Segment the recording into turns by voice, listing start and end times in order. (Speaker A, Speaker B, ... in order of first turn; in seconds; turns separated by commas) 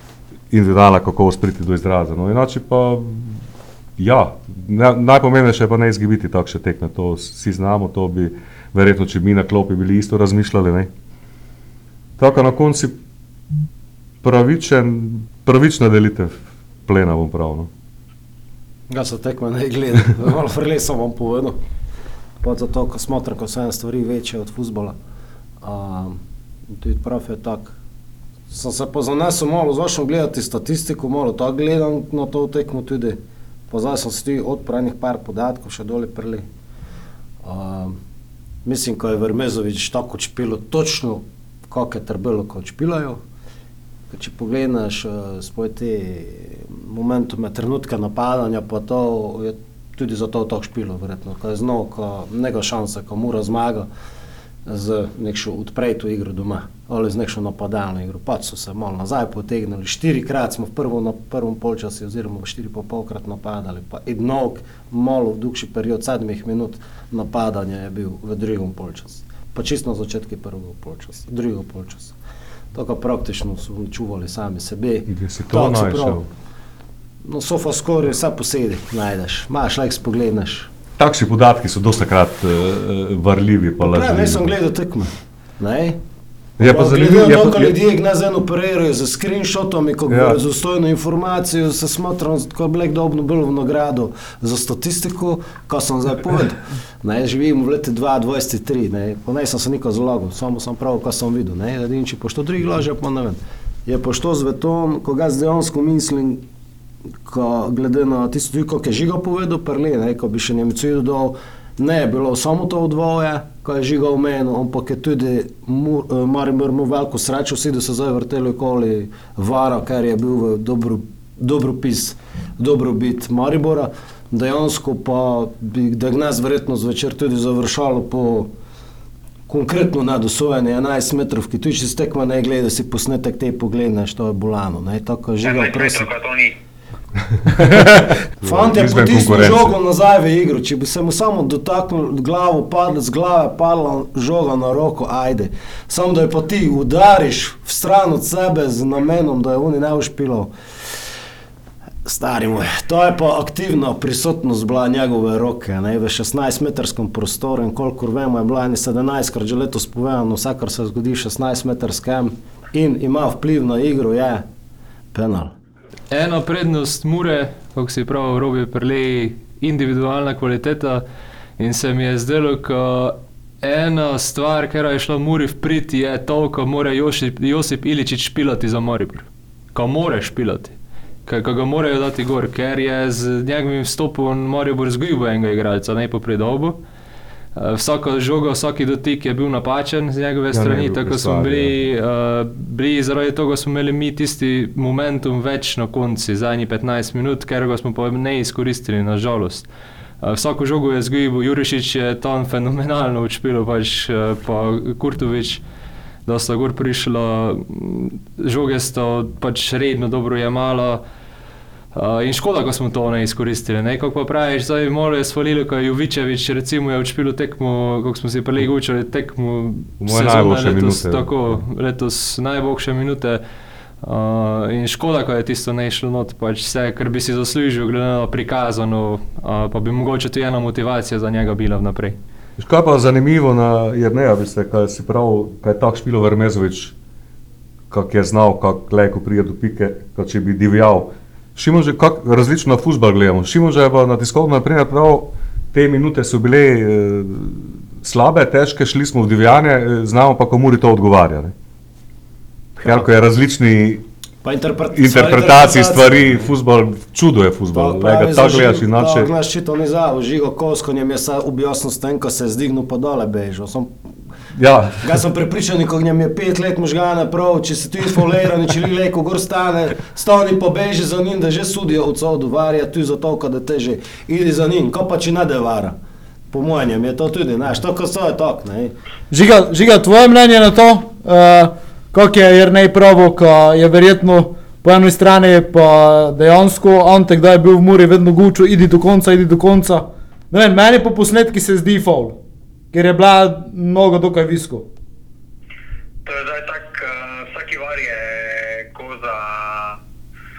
Speaker A: 0.5-3.4, Speaker A: 4.0-10.9, Speaker A: 12.2-13.0, Speaker A: 14.2-17.7, Speaker B: 18.9-21.6, Speaker B: 22.4-25.0, Speaker B: 25.6-27.8, Speaker B: 28.5-36.5, Speaker B: 37.4-38.0, Speaker B: 38.6-43.2, Speaker B: 44.1-53.9, Speaker B: 54.6-72.2, Speaker B: 72.7-76.2, Speaker A: 75.1-76.3, Speaker B: 77.2-80.7, Speaker A: 81.0-84.5, Speaker B: 83.8-86.0, Speaker B: 86.6-106.4, Speaker A: 86.6-87.7, Speaker A: 90.1-90.4, Speaker B: 107.2-128.5, Speaker B: 129.5-136.1, Speaker C: 135.4-136.6, Speaker A: 137.5-139.7, Speaker B: 137.6-150.5, Speaker B: 152.1-164.4, Speaker B: 165.1-165.6, Speaker D: 166.1-171.0, Speaker D: 171.6-186.8, Speaker D: 187.6-199.7, Speaker A: 190.5-191.7, Speaker D: 200.2-205.6, Speaker D: 206.2-211.0, Speaker D: 211.9-223.4, Speaker A: 220.0-221.6, Speaker D: 224.0-232.2, Speaker A: 232.6-236.9, Speaker A: 237.9-251.5, Speaker A: 252.8-254.0, Speaker B: 252.8-253.1, Speaker B: 254.4-256.5, Speaker A: 254.9-259.3, Speaker B: 257.7-263.9, Speaker A: 264.6-265.1, Speaker B: 265.0-276.0, Speaker B: 276.5-278.9, Speaker E: 279.3-292.4, Speaker E: 292.9-294.9, Speaker C: 296.2-300.0